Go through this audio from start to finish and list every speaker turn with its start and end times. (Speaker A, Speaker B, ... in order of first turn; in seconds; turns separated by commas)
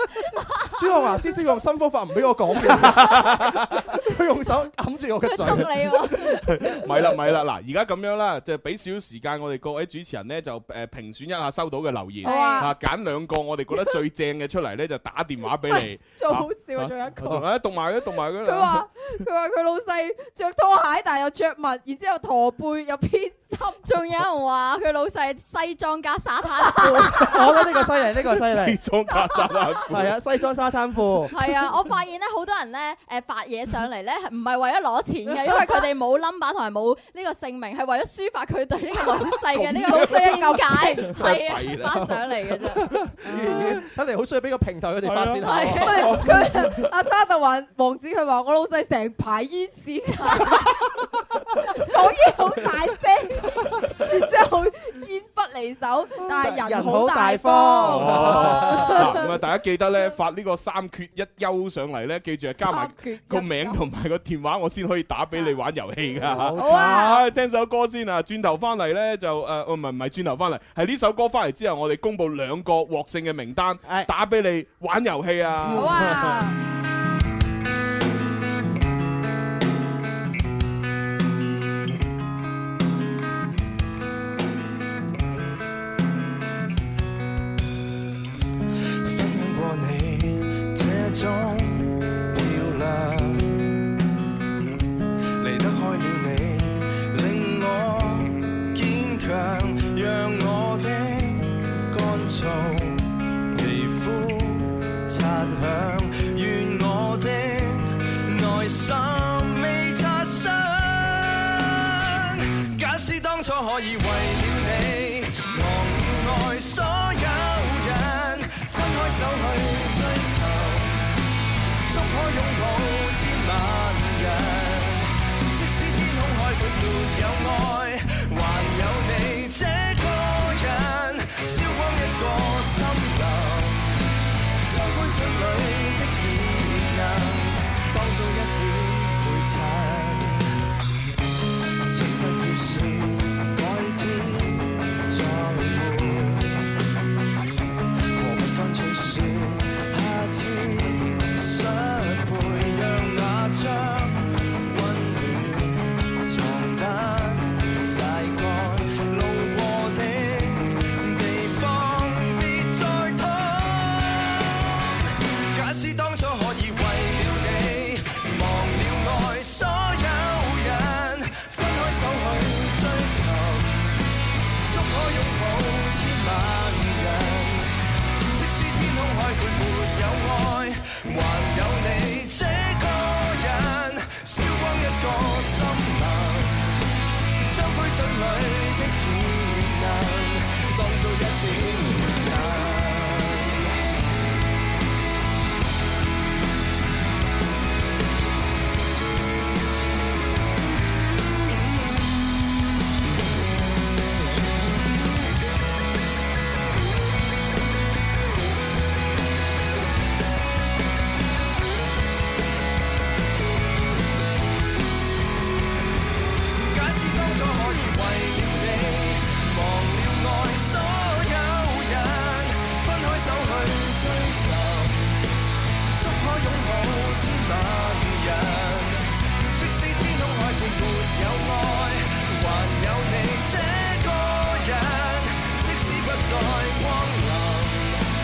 Speaker A: 0.7-6.0, Speaker B: 2.7-3.8, Speaker C: 5.2-6.7, Speaker B: 6.4-18.9, Speaker D: 12.2-12.7, Speaker C: 12.2-12.7, Speaker D: 15.7-17.4, Speaker D: 18.4-23.8, Speaker C: 23.8-27.5, Speaker D: 26.9-27.2, Speaker A: 27.1-28.8, Speaker B: 28.4-30.2, Speaker C: 29.3-29.6, Speaker A: 29.9-31.3, Speaker C: 31.3-42.9, Speaker B: 39.5-43.9, Speaker D: 39.8-41.3, Speaker A: 43.2-46.2, Speaker B: 45.0-46.9, Speaker C: 45.4-46.2, Speaker D: 45.8-50.9, Speaker D: 51.6-59.2, Speaker A: 56.2-59.1, Speaker B: 57.9-76.3, Speaker D: 62.6-63.8, Speaker A: 66.2-67.3, Speaker D: 66.5-67.2, Speaker A: 75.6-76.3, Speaker D: 75.7-76.5, Speaker E: 89.0-93.6, Speaker E: 95.4-121.1, Speaker E: 121.9-133.9, Speaker E: 134.7-140.5, Speaker E: 141.9-146.7, Speaker E: 148.1-173.8, Speaker E: 174.7-186.8, Speaker E: 187.5-193.8, Speaker E: 216.6-225.1, Speaker E: 226.0-238.0